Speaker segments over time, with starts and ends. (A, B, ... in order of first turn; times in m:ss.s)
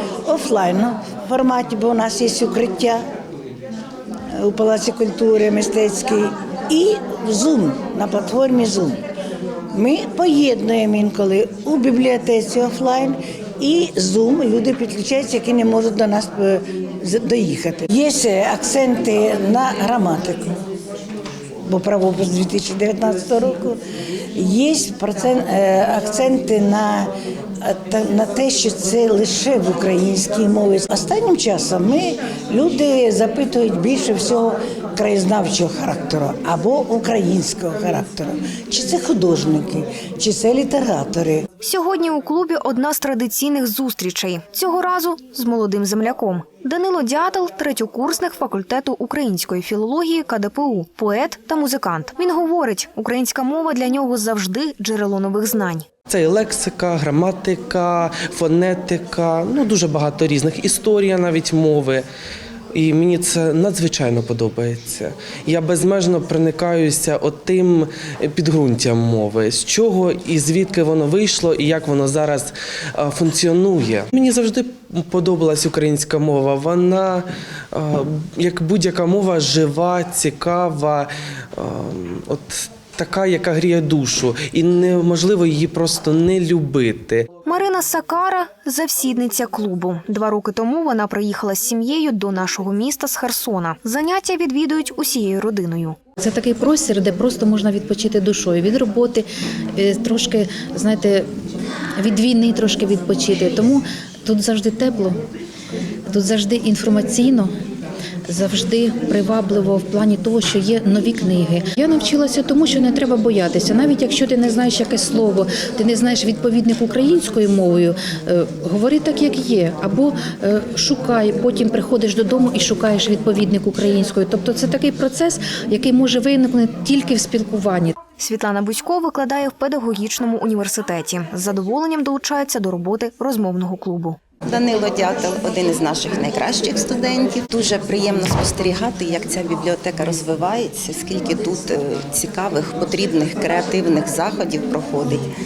0:00.2-0:03.0 A
0:04.3-0:09.0 A
0:09.7-0:20.5 A
0:21.7-0:23.8 A
0:24.4-0:27.1 A
0:27.6-0:41.5 A
0:41.6-0:55.9 B
0:56.1-1:02.0 C
1:02.7-1:27.3 C
1:27.5-1:36.0 B
1:36.2-1:41.3 D
1:42.0-1:45.2 D
1:46.1-1:47.5 D
1:48.3-2:08.0 D
2:08.2-2:14.2 B
2:14.4-2:25.2 E